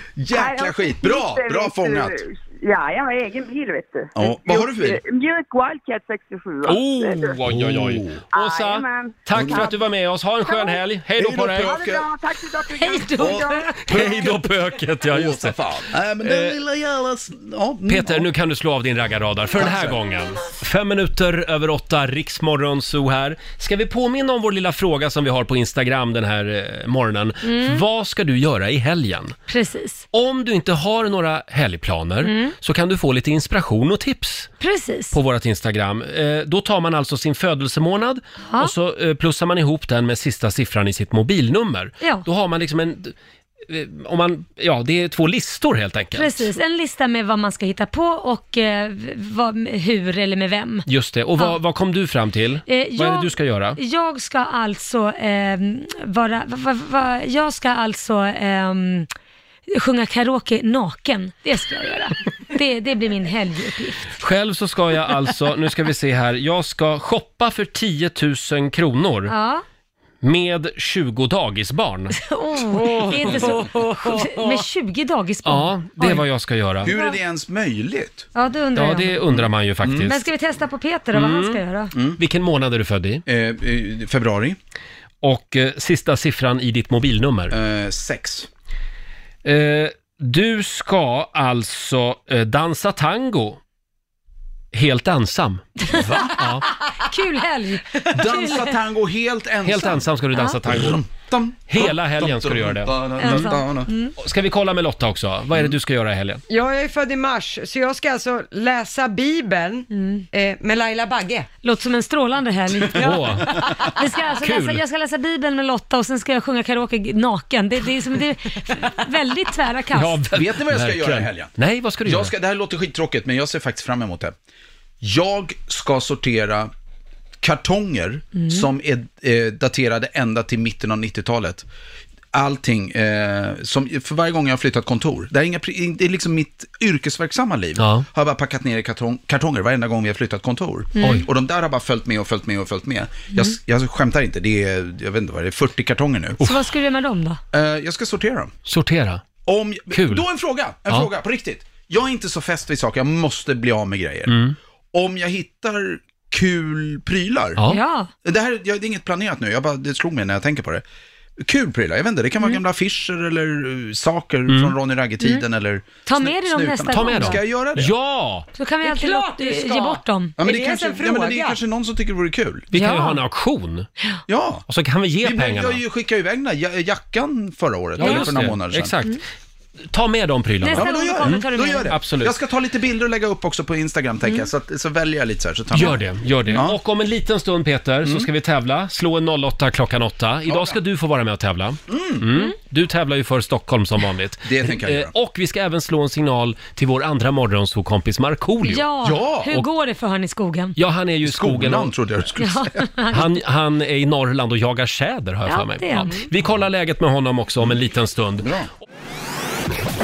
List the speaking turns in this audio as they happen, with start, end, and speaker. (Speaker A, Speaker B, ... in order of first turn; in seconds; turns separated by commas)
Speaker A: 0.2-2.2, Speaker B: 0.3-7.3, Speaker A: 4.2-5.0, Speaker C: 6.6-11.8, Speaker A: 7.4-8.2, Speaker B: 8.3-9.8, Speaker A: 9.3-9.7, Speaker B: 10.4-10.8, Speaker A: 11.2-12.1, Speaker B: 11.5-13.8, Speaker D: 12.7-14.1, Speaker A: 13.1-14.5, Speaker C: 13.8-15.6, Speaker A: 15.1-18.3, Speaker C: 16.2-16.6, Speaker C: 17.9-29.4, Speaker A: 19.6-20.0, Speaker D: 27.4-27.8, Speaker D: 29.5-30.0, Speaker C: 30.1-34.5, Speaker D: 32.2-32.5, Speaker D: 34.6-35.1, Speaker C: 35.1-43.1, Speaker C: 43.7-46.5, Speaker D: 46.1-50.9, Speaker C: 50.9-53.8, Speaker D: 52.7-59.1, Speaker D: 59.7-64.2, Speaker C: 64.2-69.3, Speaker D: 69.3-69.6, Speaker C: 70.2-72.2, Speaker D: 72.2-76.2, Speaker C: 73.1-73.6, Speaker C: 75.4-76.9, Speaker D: 76.8-77.2, Speaker A: 76.8-78.3, Speaker D: 78.3-79.2, Speaker C: 78.7-80.2, Speaker A: 79.3-80.1, Speaker D: 80.0-81.9, Speaker C: 81.1-81.6, Speaker A: 81.9-82.2, Speaker C: 82.2-83.2, Speaker A: 83.3-84.6, Speaker C: 85.2-87.5, Speaker A: 87.5-88.5, Speaker C: 89.4-93.6, Speaker C: 94.7-96.6, Speaker D: 95.9-98.7, Speaker A: 98.1-100.1, Speaker C: 99.6-101.0, Speaker A: 100.6-103.9, Speaker C: 101.7-103.4, Speaker D: 103.2-104.1, Speaker C: 104.2-106.4, Speaker E: 106.5-111.5, Speaker D: 109.9-110.2, Speaker D: 111.6-120.2, Speaker C: 112.9-113.9, Speaker C: 114.4-114.8, Speaker C: 119.9-122.3, Speaker A: 120.3-124.3, Speaker A: 125.0-126.7, Speaker A: 127.4-131.7, Speaker D: 128.3-128.7, Speaker A: 132.3-146.4, Speaker C: 137.8-138.1, Speaker D: 140.9-141.3, Speaker D: 146.4-147.4, Speaker A: 147.5-148.5, Speaker C: 148.7-149.2, Speaker A: 149.4-154.4, Speaker C: 149.9-150.2, Speaker C: 154.3-154.6, Speaker A: 154.9-157.6, Speaker D: 157.7-158.1, Speaker A: 158.2-160.8, Speaker A: 161.4-167.9, Speaker C: 164.5-164.8, Speaker D: 166.0-167.4, Speaker C: 166.9-168.4, Speaker D: 168.6-170.3, Speaker E: 168.8-171.6, Speaker A: 170.4-172.7, Speaker C: 172.7-173.9, Speaker D: 172.7-173.2, Speaker A: 174.3-174.7, Speaker C: 174.7-175.8, Speaker A: 175.2-178.9, Speaker C: 178.0-179.2, Speaker D: 178.0-178.5, Speaker C: 179.9-182.3, Speaker D: 180.6-181.9, Speaker A: 180.7-186.8, Speaker C: 185.7-198.9, Speaker A: 190.5-190.8, Speaker A: 191.9-192.3, Speaker A: 194.4-195.1, Speaker D: 198.6-200.8, Speaker A: 199.0-199.5, Speaker C: 200.8-201.9, Speaker A: 201.2-202.9, Speaker D: 202.4-203.3, Speaker C: 203.1-208.6, Speaker D: 205.5-206.2, Speaker A: 208.4-208.7